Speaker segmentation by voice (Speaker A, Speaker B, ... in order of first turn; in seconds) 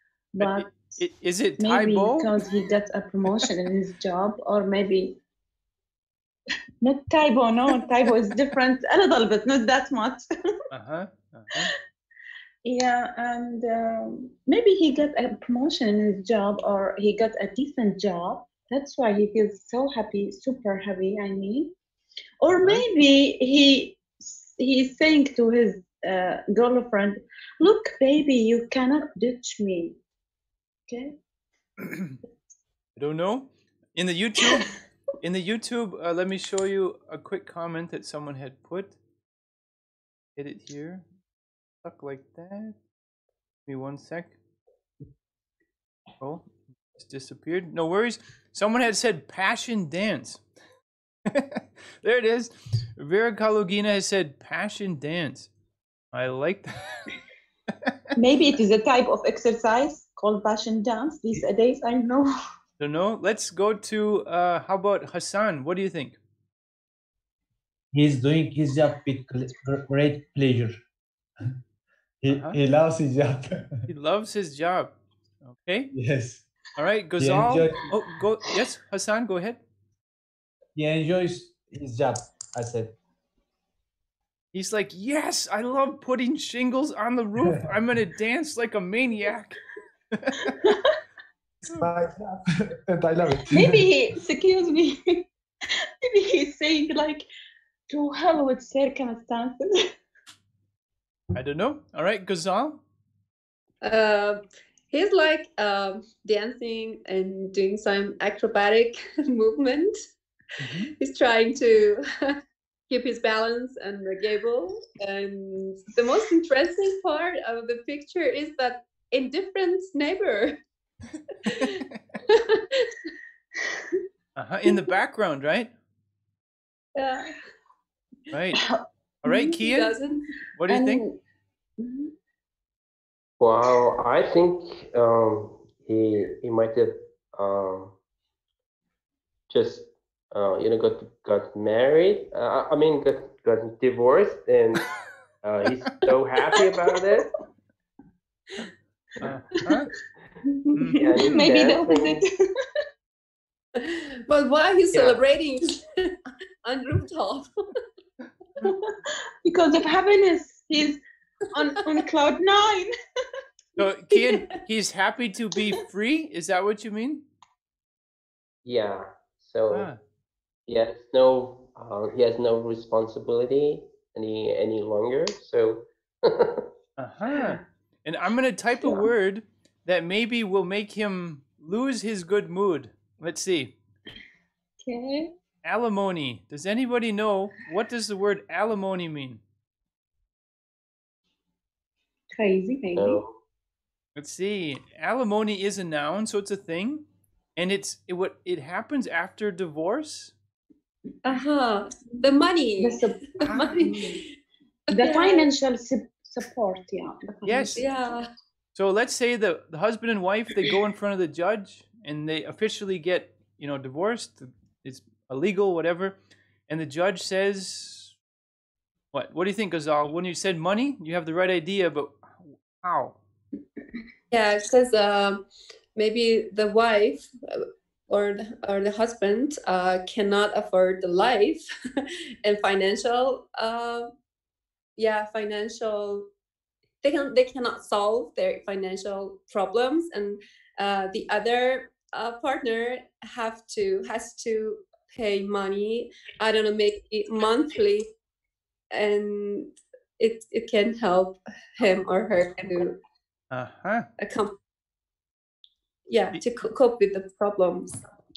Speaker A: 0.3-0.9, 1.6-5.1, 6.8-10.2, 12.6-21.7, 22.4-29.9, 30.9-31.1, 58.1-62.3, 90.6-90.9, 93.5-95.2, 96.0-97.2, 97.9-99.9, 123.7-124.0, 128.6-129.6, 130.7-131.1, 131.8-132.1, 150.4-152.3, 159.4-161.0, 161.5-162.9, 178.8-179.1, 184.8-185.3, 192.3-193.2, 202.1-204.2, 204.9-208.1
Speaker B: 0.4-2.3, 10.7-11.7, 22.5-22.8, 31.8-32.2, 33.0-34.7, 35.2-39.0, 40.4-41.0, 41.8-42.8, 43.6-44.4, 46.2-50.4, 51.3-55.5, 56.1-57.1, 62.8-66.2, 72.3-72.6, 73.9-75.9, 76.8-79.6, 84.5-89.6, 90.1-90.5, 101.3-102.8, 110.6-110.9, 121.5-121.8, 124.3-125.7, 128.3-128.6, 129.2-129.9, 130.6-131.0, 149.2-149.9, 150.8-151.4, 163.8-167.2, 169.7-170.0, 177.0-183.7, 185.6-189.4, 194.2-197.0, 197.6-200.3, 203.4-203.8, 207.4-207.8, 208.7-216.2, 216.7-218.1, 219.1-223.2, 253.5-254.1
Speaker C: 67.9-70.8, 72.2-73.8, 75.9-76.4, 77.2-77.9, 80.8-82.9, 91.7-93.9
Speaker D: 103.8-110.0, 111.0-112.3, 112.9-120.5, 121.4-122.9, 126.9-127.3, 129.6-130.2, 153.8-156.1, 156.6-157.5, 164.1-164.5, 201.2-204.2, 204.9-205.5, 207.8-208.3, 224.3-225.4, 225.9-227.3, 228.1-231.6, 232.4-234.1, 234.9-236.2, 237.0-248.1, 248.9-252.9, 254.2-254.5, 256.1-258.0
Speaker E: 133.4-137.9, 139.5-144.8, 145.4-147.3, 150.9-152.2, 154.9-155.2, 168.6-169.9, 170.7-176.7, 192.9-193.3